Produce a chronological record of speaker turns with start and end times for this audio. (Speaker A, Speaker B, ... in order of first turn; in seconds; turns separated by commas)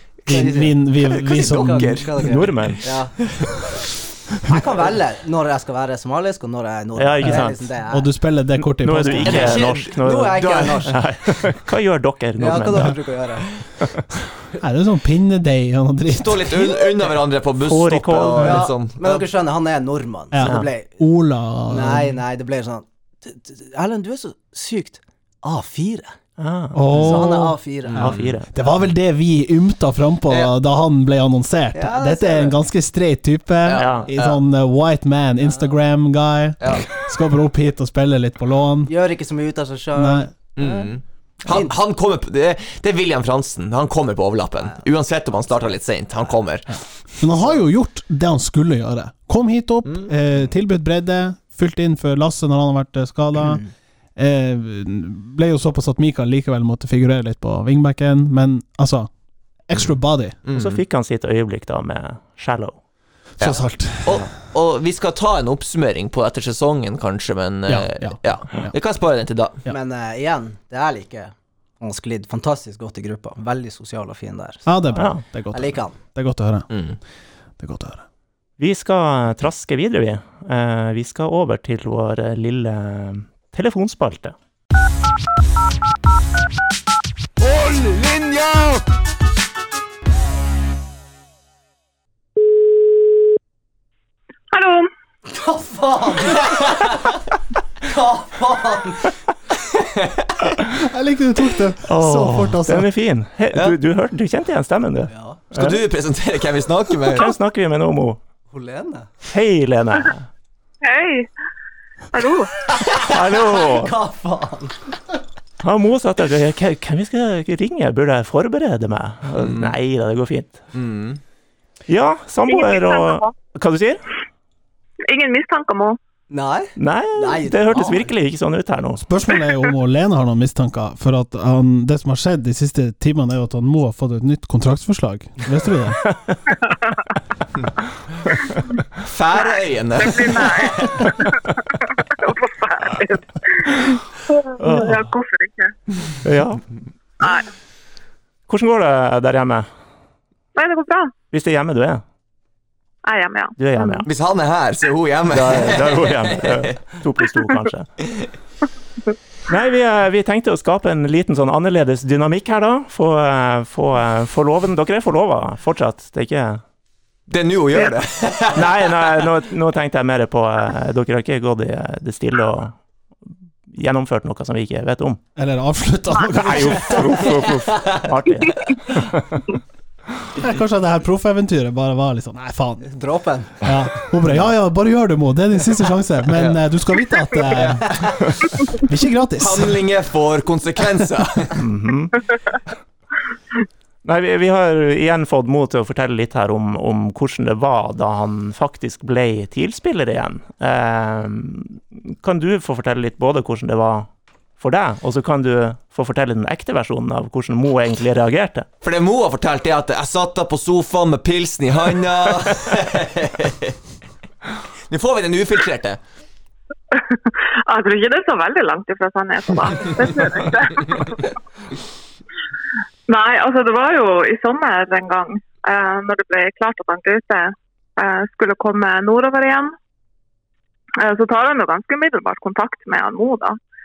Speaker A: 0.3-2.2, Speaker B: 0.3-3.1, Speaker C: 1.0-2.8, Speaker D: 2.2-2.8, Speaker B: 4.4-8.1, Speaker D: 7.0-7.7, Speaker A: 7.2-9.7, Speaker D: 8.7-13.1, Speaker C: 9.2-10.8, Speaker B: 9.3-11.0, Speaker B: 12.4-13.4, Speaker A: 14.6-16.8, Speaker C: 16.1-19.2, Speaker D: 17.6-18.6, Speaker B: 18.4-21.0, Speaker A: 20.3-22.2, Speaker B: 21.7-26.1, Speaker D: 26.4-27.3, Speaker A: 26.7-38.9, Speaker B: 26.9-28.1, Speaker C: 28.0-28.4, Speaker D: 28.0-28.5, Speaker B: 31.7-32.6, Speaker C: 33.6-34.4, Speaker D: 33.8-34.1, Speaker C: 36.6-36.9, Speaker B: 38.9-40.9, Speaker A: 39.9-40.3, Speaker C: 40.6-46.9, Speaker B: 41.5-41.8, Speaker B: 45.3-46.3, Speaker A: 47.2-53.6, Speaker C: 49.9-50.1, Speaker A: 54.2-59.1, Speaker A: 59.6-60.4, Speaker C: 60.5-60.8, Speaker D: 60.5-62.8, Speaker A: 63.4-64.3, Speaker C: 63.4-69.7, Speaker A: 67.7-68.7, Speaker B: 69.7-76.0, Speaker A: 74.7-76.7, Speaker D: 74.9-75.2, Speaker C: 76.7-77.0, Speaker A: 77.6-78.0, Speaker D: 78.6-84.3, Speaker E: 94.5-94.9, Speaker B: 95.3-96.9, Speaker B: 97.8-99.1, Speaker C: 99.8-100.3, Speaker A: 100.7-102.9, Speaker D: 101.9-105.8, Speaker B: 105.1-105.4, Speaker C: 105.5-107.3, Speaker D: 107.1-108.2, Speaker B: 108.5-109.1, Speaker D: 109.2-110.3, Speaker E: 110.8-111.3, Speaker E: 112.1-112.5, Speaker B: 112.7-114.8, Speaker D: 113.0-113.9, Speaker D: 115.6-120.6, Speaker C: 119.4-119.8, Speaker C: 120.7-121.2, Speaker D: 121.9-124.0, Speaker E: 122.5-123.3, Speaker E: 125.1-126.0, Speaker B: 126.3-128.1, Speaker D: 126.8-129.1, Speaker A: 129.1-136.1, Speaker C: 139.0-141.0, Speaker E: 139.5-145.7, Speaker D: 144.6-145.1, Speaker D: 146.2-146.6, Speaker E: 147.2-147.5, Speaker D: 148.5-149.7, Speaker E: 150.6-151.1, Speaker D: 151.3-152.0, Speaker E: 153.0-154.1, Speaker D: 153.6-154.1, Speaker C: 154.1-156.8, Speaker D: 155.3-157.9, Speaker D: 159.5-166.6, Speaker C: 167.3-169.2, Speaker D: 168.5-172.8, Speaker D: 173.7-175.2, Speaker A: 175.4-177.3, Speaker D: 176.3-179.4, Speaker A: 180.4-182.9, Speaker B: 182.8-183.6, Speaker A: 183.6-188.2, Speaker C: 186.3-186.6, Speaker C: 187.6-188.1, Speaker A: 188.7-189.8, Speaker C: 189.4-191.6, Speaker D: 191.6-192.2, Speaker D: 194.0-204.1, Speaker D: 204.6-208.7, Speaker C: 208.8-213.8, Speaker C: 214.9-216.0, Speaker E: 216.9-221.3, Speaker E: 223.1-229.8, Speaker E: 231.0-233.6